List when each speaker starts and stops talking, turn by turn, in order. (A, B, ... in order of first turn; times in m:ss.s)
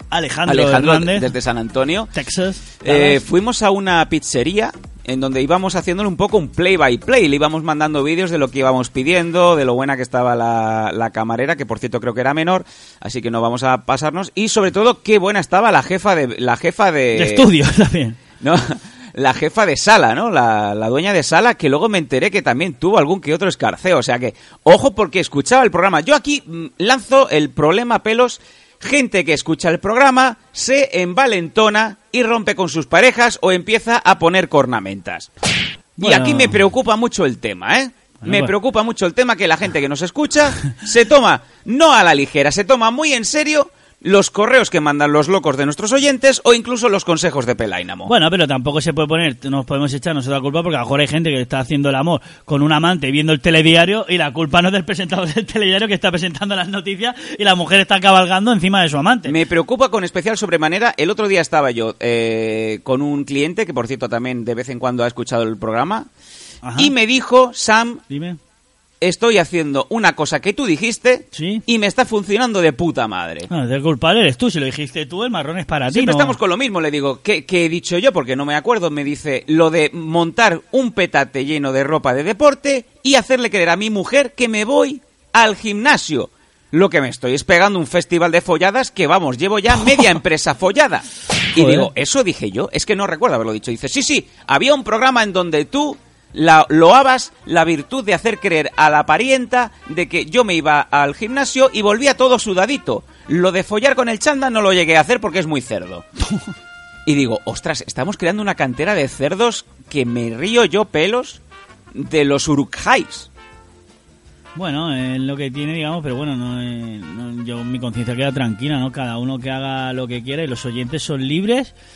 0:00.1-0:01.3 A
0:00.5-0:02.1 B
0:02.1-0:03.2 A
0:02.8-0:17.5 B
0:17.1-0:18.2 A
0:18.4-0:35.3 B
0:36.0-0:36.6 A
0:36.0-0:48.1 B
0:38.2-0:38.5 A
0:48.1-0:59.4 A
0:59.2-1:06.1 B
1:06.6-1:06.9 A
1:06.8-1:08.0 B
1:08.1-1:08.4 A
1:09.0-1:13.5 B
1:11.3-1:11.6 A
1:13.5-1:16.4 A
1:15.9-1:46.0 B
1:31.6-1:31.9 A
1:47.1-1:51.4 B
1:51.9-1:53.3 B
1:54.6-2:01.7 A